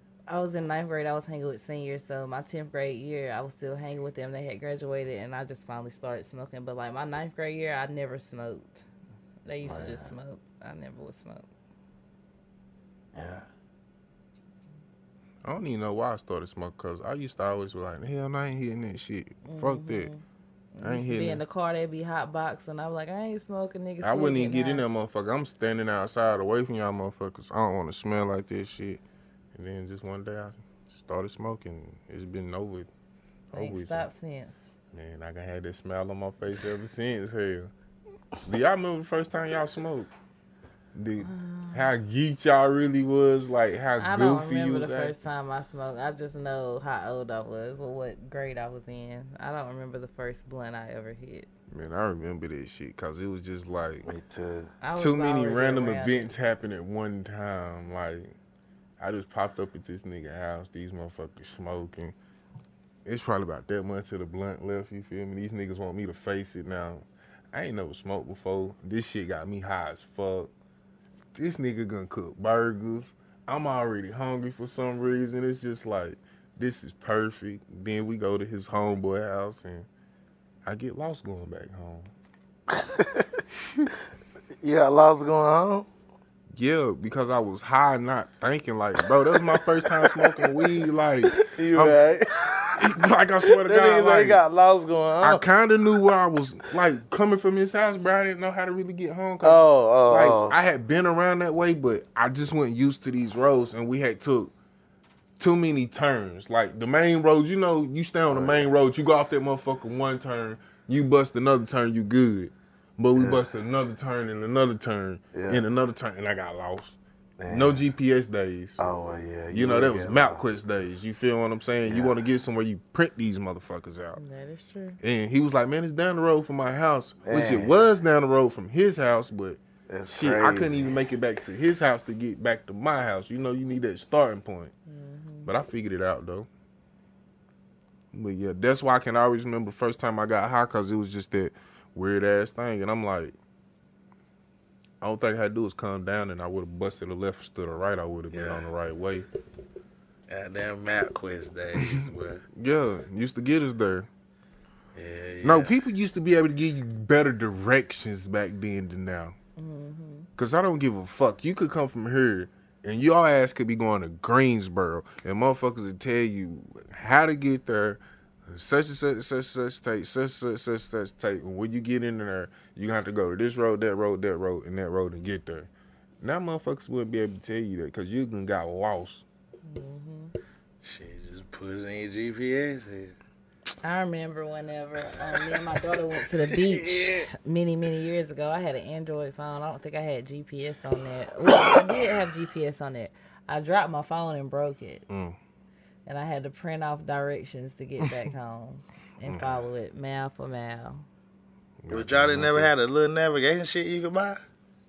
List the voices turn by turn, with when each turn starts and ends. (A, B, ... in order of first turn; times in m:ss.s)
0:00.3-0:08.9 A
0:09.4-0:11.5 A
0:09.6-0:10.1 B
0:13.1-0:13.5 B
0:15.4-0:20.1 C
0:19.4-0:20.2 A
0:20.7-0:24.8 A
0:20.8-0:21.4 C
0:24.0-0:29.0 C
0:29.5-0:32.9 C
0:33.5-0:34.1 C
0:33.5-0:34.7 A
0:34.9-0:37.7 C
0:38.4-0:40.1 C
0:41.0-0:45.2 C
0:41.2-0:41.9 A
0:44.0-0:51.5 A
0:51.7-0:54.1 C
0:54.1-0:54.7 B
0:54.8-0:56.3 A
0:55.0-0:58.4 C
0:59.0-1:02.2 C
1:03.0-1:10.5 C
1:11.4-1:19.9 C
1:20.6-1:22.1 C
1:22.7-1:23.4 B
1:23.6-1:23.9 C
1:24.6-1:25.9 B
1:26.5-1:32.0 C
1:29.3-1:30.5 B
1:31.3-1:35.4 B
1:32.8-1:34.4 C
1:35.2-1:44.5 C
1:39.4-1:40.6 B
1:45.4-1:57.0 C
1:48.3-1:48.7 B
1:53.1-1:53.4 B
1:55.3-1:55.6 B
1:57.4-1:57.8 B
1:57.5-1:58.9 C
1:58.8-2:00.4 B
1:59.5-2:04.2 C
2:01.8-2:02.2 B
2:04.2-2:05.0 A
2:05.0-2:14.7 C
2:07.3-2:07.8 B
2:09.9-2:11.0 B
2:14.9-2:15.5 A
2:15.4-2:16.5 C
2:18.1-2:23.4 C
2:25.0-2:29.3 C
2:28.3-2:28.7 B
2:30.3-2:32.5 B
2:31.8-2:34.1 C
2:35.0-2:35.8 B
2:35.4-2:39.4 C
2:39.6-2:40.3 A
2:40.4-2:55.7 C
2:56.2-2:59.2 C
2:59.6-3:00.4 A
3:00.8-3:03.2 B
3:03.8-3:15.0 A
3:05.1-3:05.6 B
3:06.5-3:07.3 B
3:15.1-3:15.4 C
3:16.1-3:21.1 A
3:19.2-3:19.6 C
3:21.8-3:22.7 C
3:21.9-3:24.4 B